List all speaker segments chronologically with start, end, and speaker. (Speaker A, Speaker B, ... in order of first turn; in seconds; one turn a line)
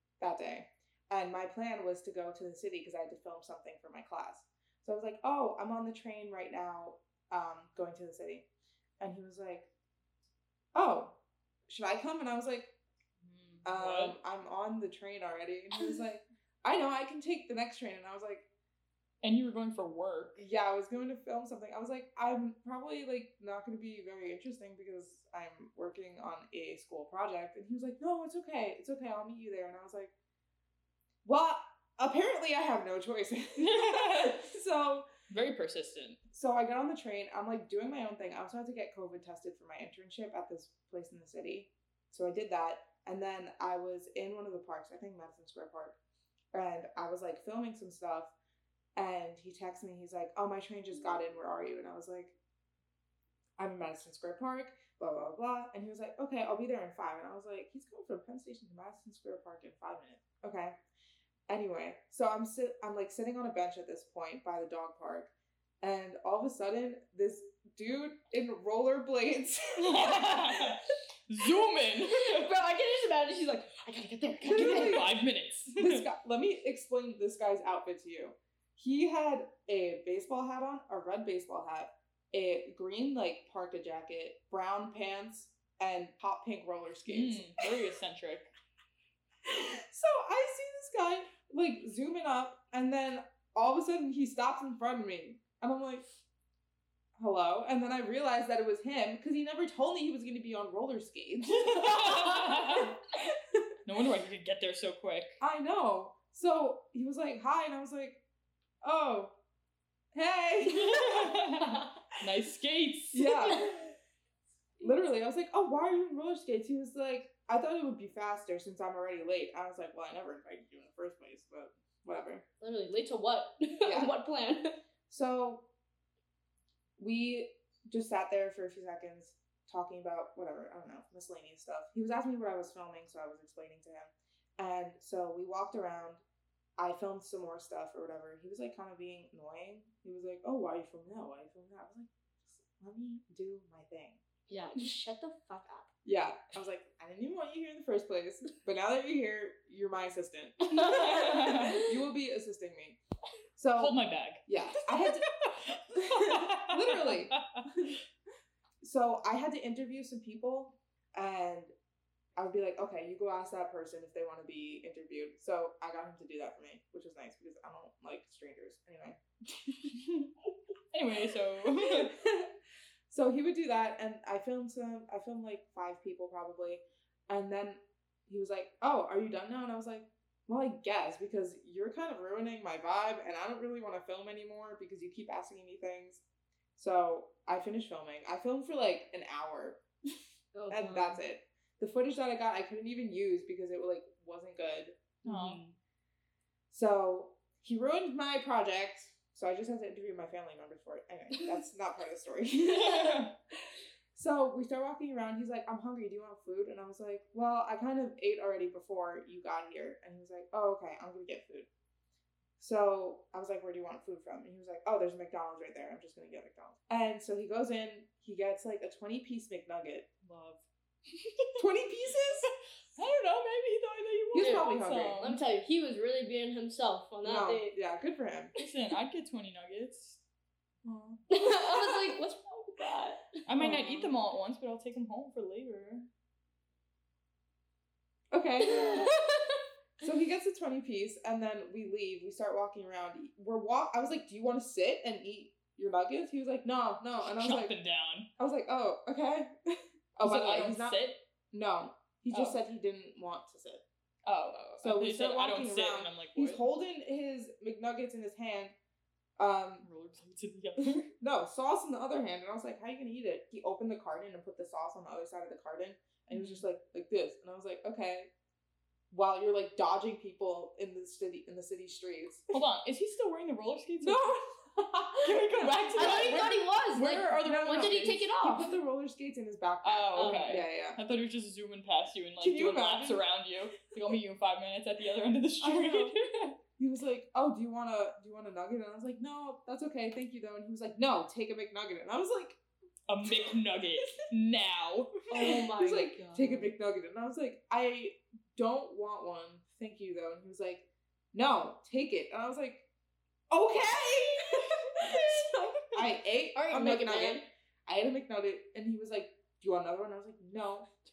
Speaker A: 0.2-8.5
Speaker A: 9.0-9.7
Speaker A: 10.7-12.7
Speaker B: 13.2-14.1
Speaker A: 13.6-18.4
Speaker B: 19.2-20.4
Speaker A: 20.4-30.1
Speaker A: 31.2-35.1
Speaker B: 33.6-34.4
Speaker B: 35.3-36.2
Speaker A: 36.3-46.0
Speaker A: 46.5-48.3
Speaker A: 49.0-52.4
Speaker A: 53.6-60.8
Speaker A: 61.5-70.8
Speaker B: 69.8-72.5
Speaker C: 71.9-75.1
Speaker A: 74.4-75.2
Speaker B: 74.4-76.0
Speaker A: 75.8-87.7
Speaker B: 87.1-88.5
Speaker A: 89.4-96.0
Speaker A: 97.2-103.6
Speaker B: 101.5-103.0
Speaker B: 103.8-105.3
Speaker A: 105.4-108.2
Speaker A: 108.8-109.3
Speaker A: 110.1-111.5
Speaker B: 110.7-113.6
Speaker A: 113.1-113.9
Speaker A: 114.8-122.5
Speaker C: 122.6-124.8
Speaker A: 123.8-124.2
Speaker A: 125.1-125.7
Speaker A: 127.0-136.2
Speaker A: 136.8-144.2
Speaker C: 144.5-145.9
Speaker A: 146.0-153.0
Speaker B: 150.7-151.8
Speaker C: 150.8-151.8
Speaker A: 153.6-155.3
Speaker B: 153.8-157.7
Speaker A: 155.9-158.0
Speaker A: 158.8-161.7
Speaker A: 162.3-170.0
Speaker B: 170.9-172.1
Speaker A: 171.7-172.5
Speaker A: 173.1-186.2
Speaker A: 186.8-189.8
Speaker C: 190.5-191.2
Speaker A: 190.7-195.1
Speaker B: 195.2-195.6
Speaker C: 195.2-195.8
Speaker A: 196.7-203.3
Speaker B: 202.7-203.3
Speaker A: 204.1-211.7
Speaker A: 212.6-220.2
Speaker B: 220.2-221.7
Speaker A: 221.6-222.5
Speaker B: 222.9-225.4
Speaker A: 224.3-225.2
Speaker C: 224.4-227.8
Speaker A: 227.2-228.5
Speaker B: 228.6-230.2
Speaker A: 230.8-231.2
Speaker C: 231.3-233.4
Speaker B: 233.4-236.1
Speaker A: 233.6-234.1
Speaker A: 238.3-239.1
Speaker C: 238.6-239.6
Speaker A: 240.0-247.7
Speaker B: 247.2-248.3
Speaker A: 248.4-253.8
Speaker B: 250.2-251.2
Speaker B: 252.3-252.6
Speaker B: 254.2-256.6
Speaker A: 254.8-258.8
Speaker A: 259.4-259.9
Speaker B: 259.8-261.1
Speaker A: 260.8-268.3
Speaker B: 266.3-266.6
Speaker A: 269.1-272.6
Speaker B: 272.5-274.3
Speaker A: 274.0-276.1
Speaker B: 275.2-277.9
Speaker C: 275.9-278.8
Speaker A: 277.2-281.0
Speaker B: 279.8-286.5
Speaker C: 280.1-280.6
Speaker A: 282.4-283.2
Speaker A: 285.6-286.1
Speaker A: 286.8-292.6
Speaker B: 293.1-295.5
Speaker A: 293.2-293.6
Speaker C: 295.3-296.7
Speaker A: 295.3-302.9
Speaker A: 303.5-310.9
Speaker C: 305.0-306.0
Speaker C: 306.5-307.4